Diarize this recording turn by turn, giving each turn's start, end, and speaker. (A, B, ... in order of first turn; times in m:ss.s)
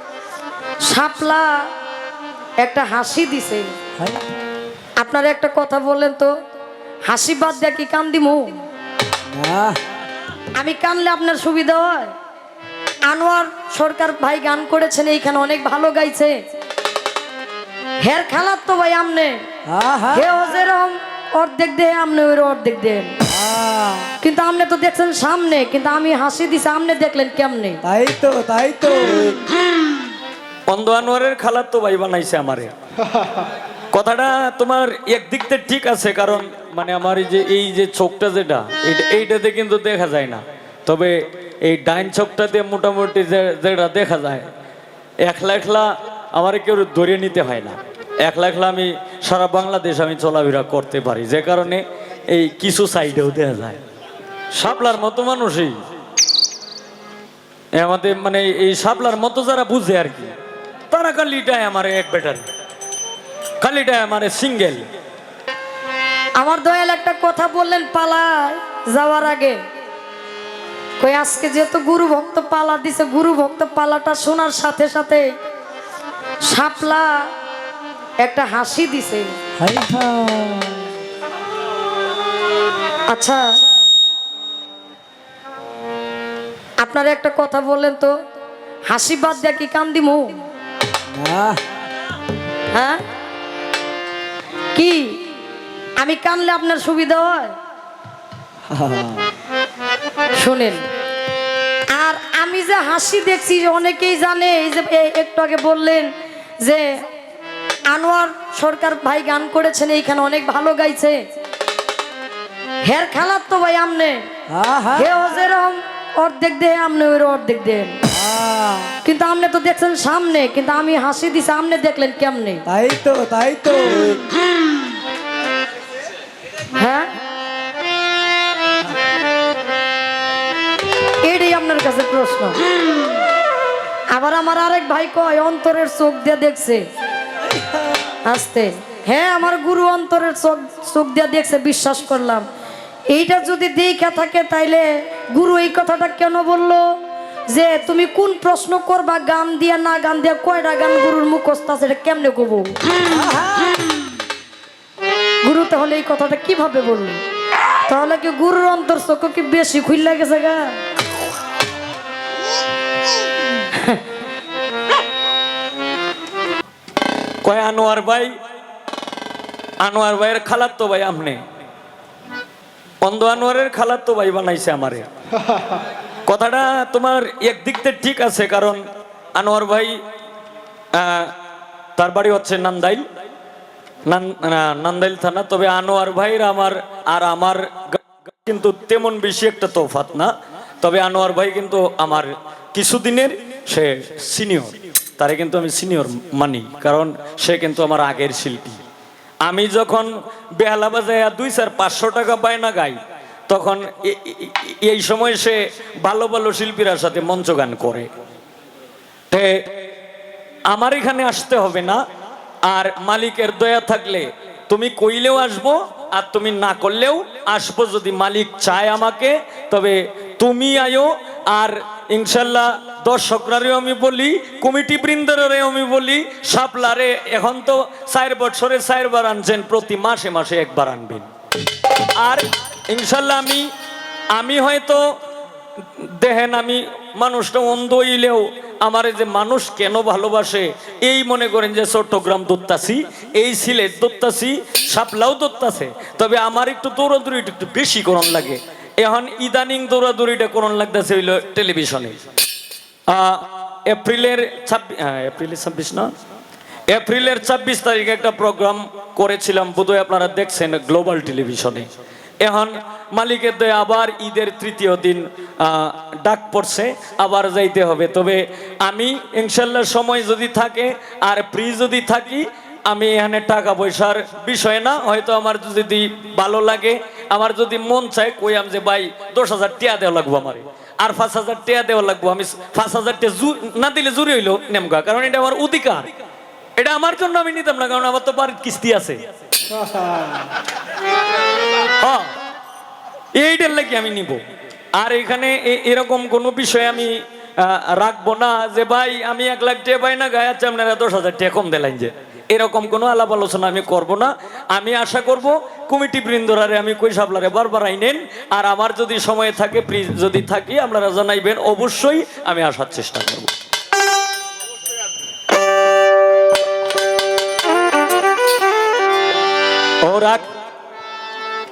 0:00.9-0:01.6 A
0:02.6-0:03.7 A
0:05.0-0:06.3 A
0:07.1-0:08.6 A
0:09.3-0:09.8 B
0:10.6-0:12.1 A
0:13.1-0:16.4 A
0:18.0-0:19.4 A
0:19.7-0:20.2 B
0:20.1-0:23.1 A
0:23.3-0:24.1 B
0:24.2-0:27.8 A
0:27.8-0:29.4 B
0:30.7-0:32.7 C
0:33.9-0:44.4 C
0:45.2-0:53.8 C
0:54.6-0:55.8 C
0:57.8-1:00.3 C
1:00.9-1:02.4 C
1:03.6-1:04.8 C
1:06.4-1:09.6 A
1:11.0-1:15.3 A
1:16.5-1:17.2 A
1:18.2-1:19.3 A
1:19.6-1:20.9 B
1:23.1-1:23.4 A
1:26.8-1:28.1 A
1:28.9-1:30.4 A
1:31.1-1:31.6 B
1:32.7-1:33.0 A
1:34.8-1:35.2 A
1:36.0-1:37.5 A
1:38.7-1:39.3 B
1:40.4-1:40.8 A
1:41.9-1:46.1 A
1:46.6-1:47.0 A
1:47.9-1:51.2 A
1:52.8-1:54.2 A
1:54.5-1:55.1 B
1:55.0-1:58.0 A
1:58.1-1:58.9 B
1:59.0-2:02.6 A
2:02.7-2:04.3 B
2:06.8-2:07.1 A
2:11.2-2:12.6 A
2:14.1-2:16.8 A
2:18.2-2:22.5 A
2:23.1-2:27.0 A
2:27.5-2:32.8 A
2:33.1-2:33.7 B
2:35.4-2:37.2 A
2:37.9-2:40.8 A
2:43.7-2:44.0 A
2:47.4-2:48.3 C
2:49.8-2:51.4 C
2:53.0-2:55.1 C
2:56.3-2:58.8 C
2:59.4-3:00.0 C
3:00.9-3:01.3 C
3:02.0-3:03.0 C
3:04.1-3:18.8 C
3:19.4-3:28.1 C
3:29.3-3:29.6 C
3:30.7-3:32.0 C
3:32.7-3:51.3 C
3:52.2-3:53.7 C
3:54.3-3:55.0 C
3:56.0-4:12.2 C
4:13.1-4:16.1 C
4:16.9-4:21.9 C
4:22.4-4:46.1 C
4:46.8-4:49.2 C
4:52.0-4:52.3 C
4:53.4-4:54.4 C
4:55.0-5:13.5 C
5:20.0-5:20.5 C